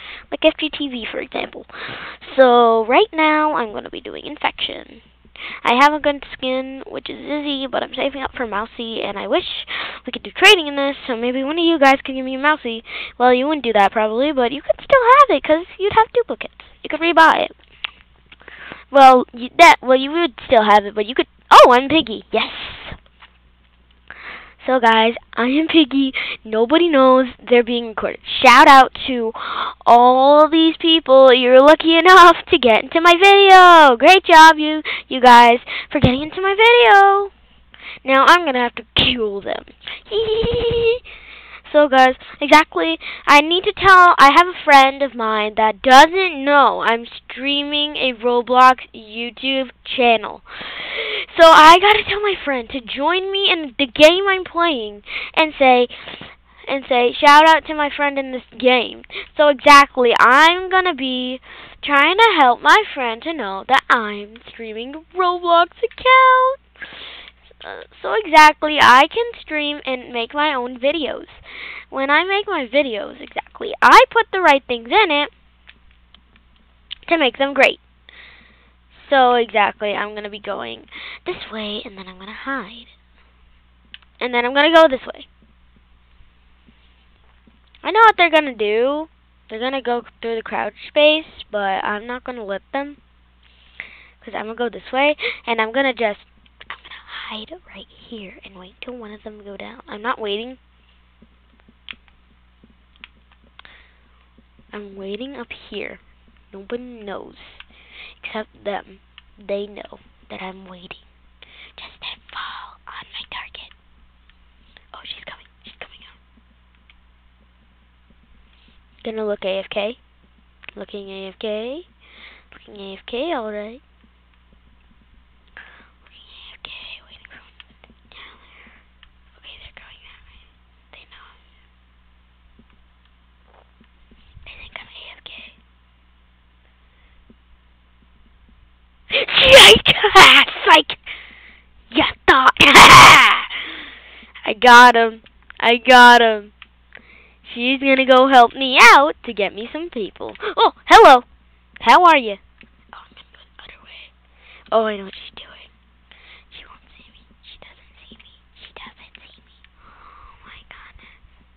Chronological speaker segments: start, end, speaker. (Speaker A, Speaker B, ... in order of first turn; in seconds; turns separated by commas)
Speaker A: 0.3-5.0, Speaker A: 5.6-17.5, Speaker A: 18.9-23.0, Speaker A: 24.6-37.3, Speaker A: 38.0-41.0, Speaker A: 41.6-66.6, Speaker A: 67.6-75.3, Speaker A: 77.1-77.8, Speaker A: 78.9-82.9, Speaker A: 84.2-85.3, Speaker A: 87.8-93.0, Speaker A: 94.2-100.6, Speaker A: 104.7-106.0, Speaker A: 106.5-107.6, Speaker A: 108.2-111.1, Speaker A: 111.8-113.7, Speaker A: 114.9-116.2, Speaker A: 119.0-120.0, Speaker A: 120.8-121.9, Speaker A: 122.5-123.8, Speaker A: 126.0-127.6, Speaker A: 128.1-128.4, Speaker A: 129.3-130.3, Speaker A: 130.9-131.3, Speaker A: 134.5-135.6, Speaker A: 139.1-141.0, Speaker A: 141.9-143.7, Speaker A: 144.4-146.5, Speaker A: 147.4-151.2, Speaker A: 151.8-152.4, Speaker A: 152.9-154.1, Speaker A: 154.7-155.7, Speaker A: 156.5-159.6, Speaker A: 160.4-161.1